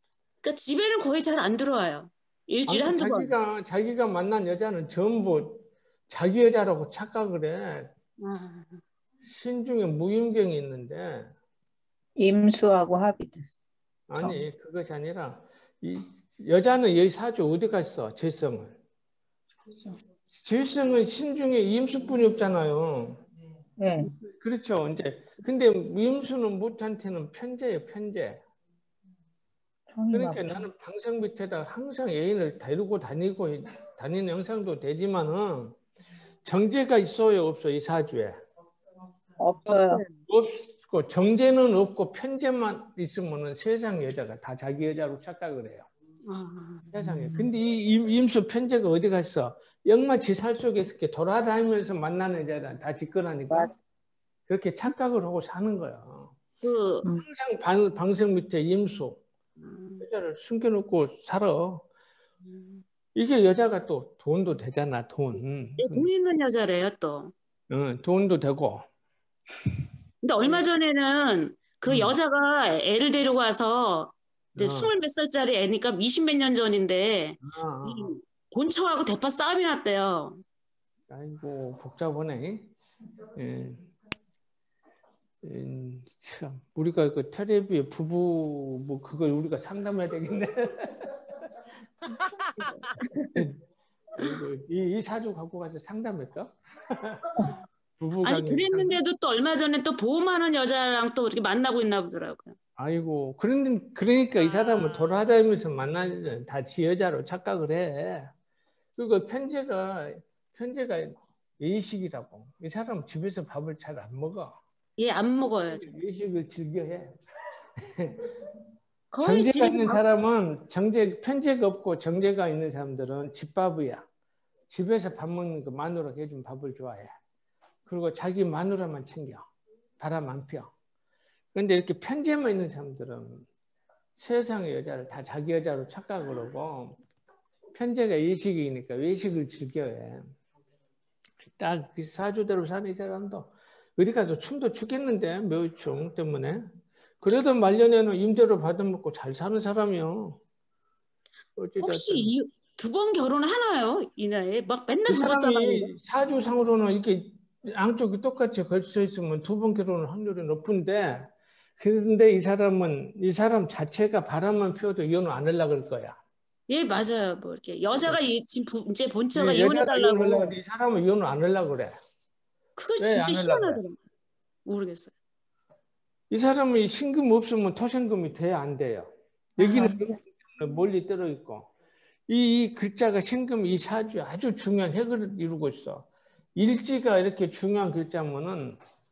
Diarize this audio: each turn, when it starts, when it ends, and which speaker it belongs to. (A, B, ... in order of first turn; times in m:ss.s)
0:00.4-0:03.3 A
0:02.7-0:07.9 B
0:08.2-0:08.8 A
0:09.2-0:11.3 B
0:12.2-0:13.5 C
0:14.1-0:18.8 B
0:19.7-0:20.0 C
0:20.3-0:23.2 B
0:23.8-0:24.1 C
0:24.1-0:28.4 B
0:29.9-0:30.5 C
0:30.1-0:35.8 B
0:36.4-0:38.4 B
0:39.4-0:40.0 C
0:39.7-0:45.9 B
0:46.2-0:46.9 A
0:46.9-0:53.7 B
0:47.0-0:47.5 C
0:54.5-0:56.4 B
0:56.6-0:57.0 A
0:57.0-0:59.2 B
0:59.6-1:00.0 A
1:00.0-1:01.9 B
1:02.5-1:02.8 A
1:03.2-1:06.1 B
1:05.8-1:07.3 A
1:07.7-1:08.8 B
1:10.2-1:20.4 A
1:11.9-1:12.2 B
1:14.6-1:14.9 B
1:17.4-1:18.2 B
1:21.1-1:22.7 B
1:23.4-1:23.9 B
1:25.4-1:31.4 B
1:32.1-1:33.6 B
1:34.2-1:39.0 B
1:38.2-1:42.6 A
1:42.8-1:48.3 B
1:49.0-1:54.6 B
1:55.0-1:56.0 A
1:55.7-1:57.2 B
1:57.9-1:58.3 B
1:59.1-2:00.0 A
1:59.2-2:04.0 B
2:04.7-2:07.1 B
2:07.9-2:09.4 B
2:10.0-2:10.7 B
2:11.5-2:13.5 B
2:14.2-2:17.0 B
2:17.8-2:20.3 B
2:21.6-2:30.4 B
2:31.6-2:32.3 B
2:31.8-2:35.9 A
2:35.1-2:46.2 B
2:46.7-2:50.6 A
2:49.4-2:52.0 B
2:52.8-2:54.0 A
2:53.0-2:53.8 B
2:54.6-2:55.1 A
2:56.3-3:01.7 B
2:59.6-3:00.1 C
3:02.3-3:08.8 B